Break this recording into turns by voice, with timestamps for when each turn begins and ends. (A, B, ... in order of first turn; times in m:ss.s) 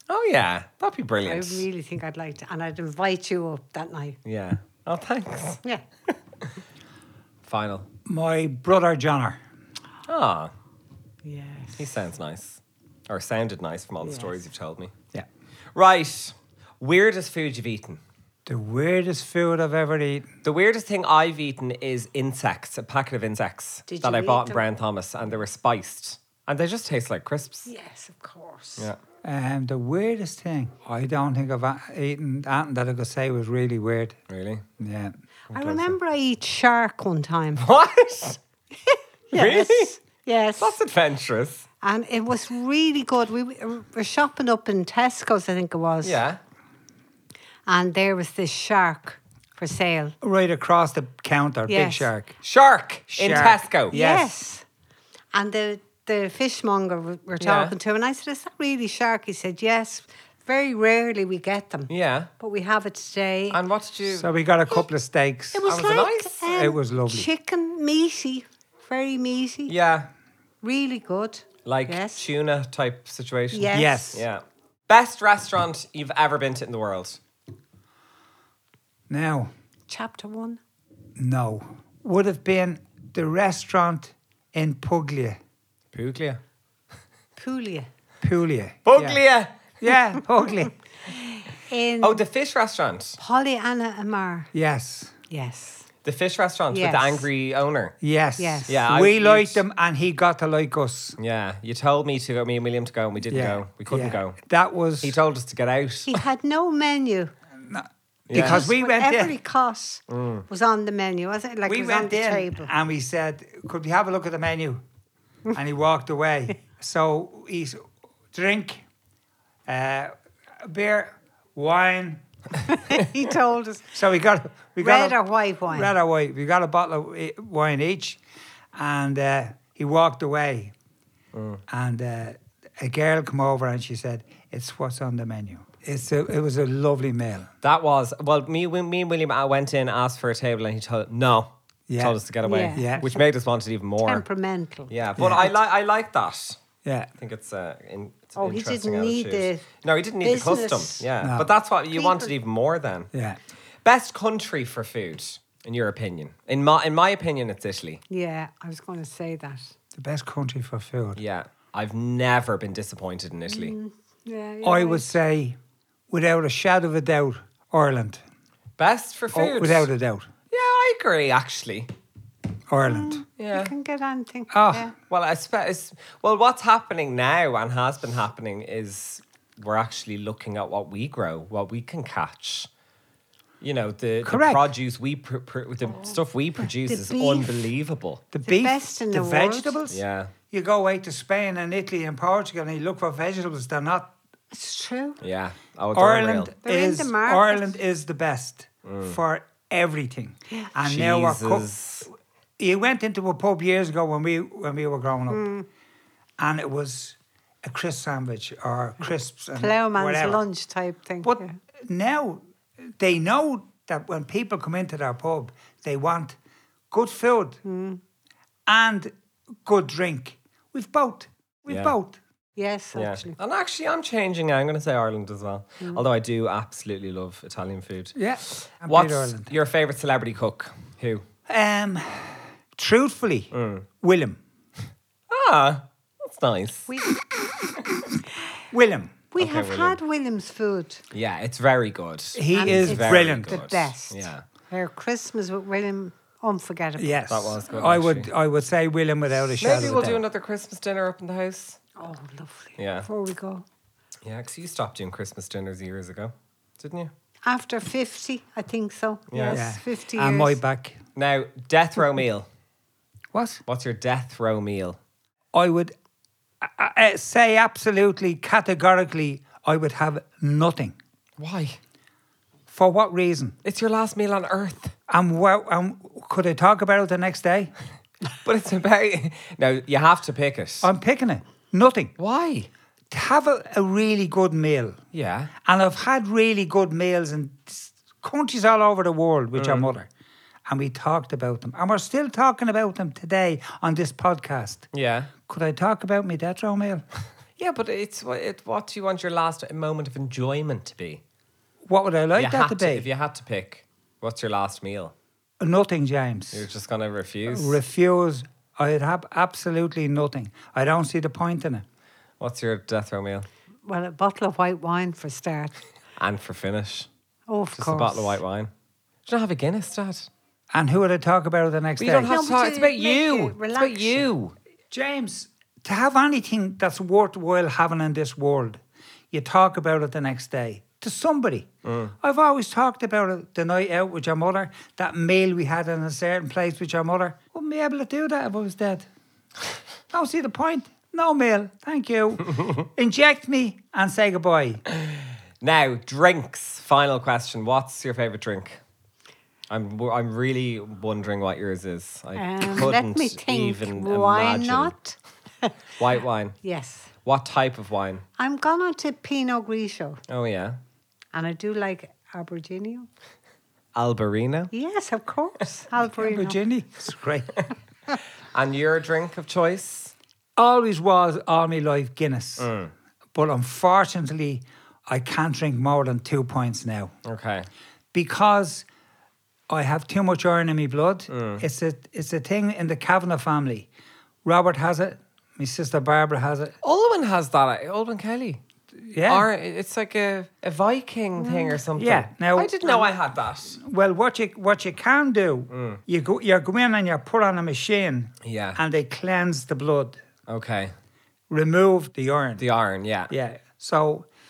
0:00.1-0:01.6 A
0:01.2-0:04.2 B
0:04.2-0:05.6 A
0:07.4-0:07.9 A
0:08.0-0:09.4 C
0:10.1-0:10.5 A
0:11.2-0:11.9 B
0:11.8-0:14.9 A
0:14.0-0:14.4 B
0:15.7-0:18.0 A
0:18.4-0:20.3 C
0:20.4-0:27.7 A
0:23.9-0:24.6 B
0:27.7-0:28.9 B
0:29.2-0:34.2 C
0:34.3-0:34.6 A
0:34.8-0:35.9 C
0:35.5-0:37.6 B
0:37.6-0:38.4 A
0:38.7-0:40.8 B
0:39.3-0:39.9 A
0:40.6-0:41.7 A
0:41.8-0:46.2 B
0:46.0-0:46.4 A
0:47.6-0:50.2 B
0:50.2-0:52.3 C
0:51.7-0:52.1 B
0:52.4-0:54.0 A
0:53.1-0:54.3 C
0:53.9-0:54.6 B
0:55.3-1:03.6 B
0:57.4-0:57.7 A
1:01.9-1:02.3 A
1:03.5-1:04.3 A
1:04.1-1:05.7 C
1:05.5-1:09.7 B
1:05.6-1:06.5 A
1:06.5-1:07.3 C
1:09.7-1:10.1 A
1:10.6-1:12.3 B
1:11.6-1:17.2 A
1:13.5-1:14.1 B
1:13.7-1:14.2 C
1:19.1-1:19.5 C
1:19.9-1:20.6 B
1:21.2-1:25.4 C
1:25.9-1:26.4 A
1:27.4-1:27.9 B
1:28.2-1:29.2 C
1:28.8-1:29.6 A
1:29.8-1:30.7 C
1:31.1-1:32.2 B
1:32.0-1:33.2 A
1:33.2-1:34.5 B
1:34.5-1:35.1 C
1:35.3-1:35.9 B
1:36.0-1:38.0 A
1:36.7-1:37.3 B
1:38.0-1:41.2 C
1:38.4-1:38.7 B
1:38.7-1:39.6 A
1:41.2-1:44.4 A
1:43.3-1:45.2 C
1:45.0-1:46.2 A
1:46.1-1:47.3 B
1:47.6-1:49.3 C
1:48.3-1:48.6 A
1:48.3-1:52.7 B
1:50.1-1:50.4 A
1:51.6-1:54.8 C
1:55.5-1:58.8 C
1:59.6-2:02.2 C
2:02.7-2:03.9 B
2:03.9-2:05.2 C
2:04.8-2:05.9 B
2:05.7-2:08.2 C
2:08.7-2:10.7 C
2:11.3-2:11.6 A
2:11.7-2:17.5 C
2:17.6-2:24.2 A
2:21.9-2:22.2 C
2:22.4-2:23.3 B
2:22.7-2:23.1 C
2:24.0-2:24.9 B
2:24.9-2:26.6 A
2:25.2-2:25.5 C
2:26.8-2:27.1 C
2:27.2-2:33.1 A
2:28.4-2:31.0 B
2:31.2-2:31.5 C
2:31.9-2:32.3 B
2:33.1-2:33.4 C
2:33.8-2:38.0 A
2:38.1-2:39.7 B
2:40.0-2:41.2 C
2:41.2-2:43.7 A
2:43.5-2:45.2 B
2:44.6-2:45.6 C
2:46.1-2:48.2 C
2:48.8-2:49.9 A
2:49.3-2:50.3 C
2:50.5-2:51.9 A
2:52.7-2:53.2 C
2:52.8-2:54.9 B
2:53.4-2:53.7 A
2:54.5-2:54.9 C
2:55.1-3:02.7 A
3:03.6-3:08.2 A
3:04.2-3:04.7 C
3:05.9-3:07.7 B
3:08.3-3:14.1 C
3:08.5-3:09.8 B
3:09.9-3:10.3 A
3:14.5-3:15.2 B
3:15.2-3:16.5 A
3:15.9-3:21.7 C
3:16.6-3:17.7 B
3:18.8-3:19.2 A
3:20.8-3:22.1 A
3:22.6-3:25.4 C
3:25.3-3:25.6 B
3:26.4-3:30.4 C
3:29.5-3:31.6 B
3:31.2-3:36.4 C
3:36.9-3:37.6 C
3:37.6-3:38.0 B
3:38.7-3:39.1 C
3:39.6-3:42.2 C
3:41.7-3:41.9 A
3:42.6-3:43.4 B
3:43.0-3:51.2 A
3:48.2-3:49.5 C
3:51.5-3:54.4 C
3:53.5-3:53.9 A
3:55.3-3:56.9 A
3:58.7-3:59.2 C
3:59.3-4:01.0 B
3:59.4-4:00.0 A
4:01.1-4:04.4 A
4:02.3-4:03.8 C
4:02.5-4:07.2 B
4:07.0-4:10.2 C
4:07.3-4:08.3 A
4:09.5-4:11.8 A
4:12.0-4:13.6 B
4:12.8-4:13.1 A
4:14.2-4:17.1 A
4:17.4-4:20.6 B
4:19.3-4:19.6 A
4:19.5-4:21.0 C
4:21.2-4:22.5 A
4:23.3-4:23.6 C
4:23.6-4:25.0 A
4:25.5-4:25.9 C
4:26.6-4:31.0 C
4:31.4-4:31.8 A
4:32.7-4:33.6 C
4:33.6-4:34.9 A
4:35.1-4:37.7 C
4:38.4-4:40.9 A
4:40.8-4:42.1 C
4:42.2-4:42.7 A
4:43.1-4:45.0 C
4:45.1-4:45.5 A
4:45.6-4:50.1 C
4:49.6-4:49.9 A
4:50.7-4:54.9 C
4:54.9-4:55.3 A
4:55.5-4:57.0 C
4:57.6-5:01.2 A
5:01.8-5:03.1 C
5:02.3-5:05.1 A
5:05.6-5:06.6 C
5:06.5-5:07.8 A
5:07.5-5:11.8 C
5:12.4-5:13.5 A
5:13.8-5:15.7 B
5:16.2-5:17.1 A
5:17.5-5:18.4 B
5:17.8-5:18.7 A
5:19.2-5:20.3 A
5:20.7-5:22.3 C
5:22.0-5:24.5 A
5:22.2-5:24.3 B
5:24.9-5:28.8 C
5:29.3-5:31.7 C
5:31.8-5:32.1 A
5:32.2-5:39.1 C
5:40.1-5:44.8 C
5:45.1-5:48.8 A
5:49.7-5:54.9 A
5:52.3-5:55.7 B
5:56.0-5:56.6 A
5:56.6-5:57.1 B
5:57.2-5:58.2 A
5:58.4-6:00.2 B
6:00.3-6:00.8 A
6:01.3-6:03.1 B
6:03.9-6:04.7 A
6:04.7-6:06.6 B
6:06.1-6:07.6 C
6:08.5-6:10.1 A
6:10.6-6:12.7 C
6:12.6-6:12.9 A
6:13.3-6:17.1 C
6:17.2-6:17.7 A
6:18.1-6:18.8 C
6:19.7-6:23.9 C
6:21.3-6:21.6 A
6:24.4-6:26.7 C
6:26.8-6:28.6 A
6:29.0-6:29.5 C
6:29.3-6:33.8 A
6:31.9-6:33.1 C
6:33.8-6:40.2 C
6:35.7-6:36.0 A
6:38.4-6:38.8 A
6:40.5-6:40.9 A
6:41.5-6:42.6 C
6:42.6-6:43.3 A
6:43.3-6:44.3 C